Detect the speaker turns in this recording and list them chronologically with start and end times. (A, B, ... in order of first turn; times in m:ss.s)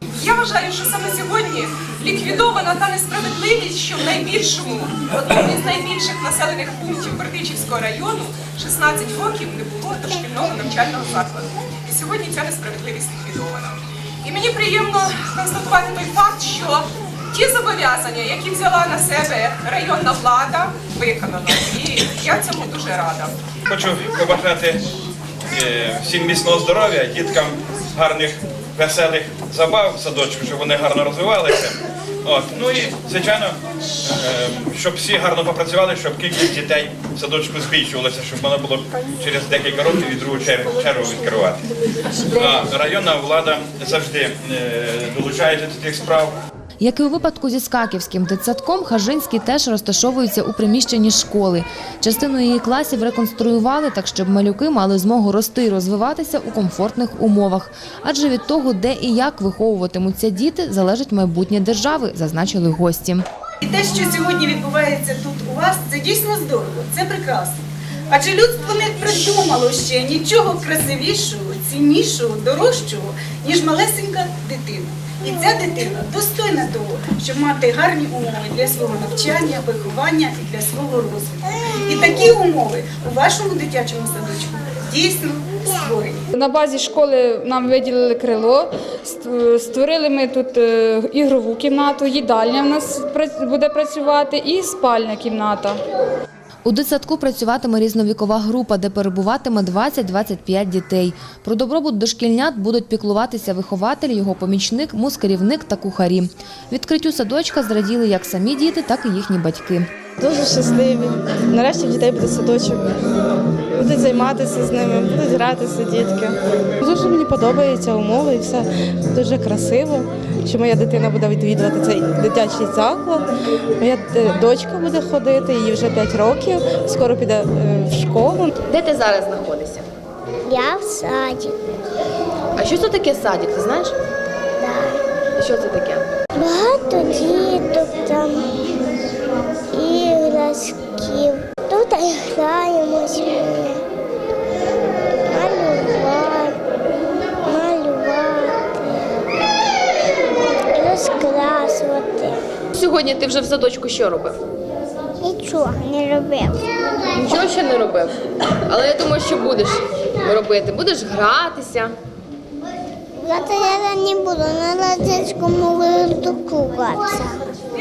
0:00.2-0:23.3 A
0:23.7-0:24.8 B
0:25.5-0:41.6 B
0:42.2-0:46.3 B
0:46.8-1:03.2 C
1:03.6-1:07.6 D
1:08.1-1:26.2 D
1:26.3-1:35.8 E
1:36.6-1:49.9 C
1:50.2-1:52.9 F
1:53.8-2:08.5 F
2:08.7-2:09.9 G
2:10.5-2:11.6 H
2:12.6-2:14.0 G
2:14.6-2:15.0 H
2:15.4-2:16.1 G
2:16.4-2:18.6 H
2:19.7-2:23.8 H
2:25.3-2:26.6 H
2:27.5-2:29.1 H
2:30.7-2:32.4 H
2:32.7-2:34.4 G
2:35.2-2:36.6 H
2:37.1-2:41.9 G
2:43.6-2:47.3 H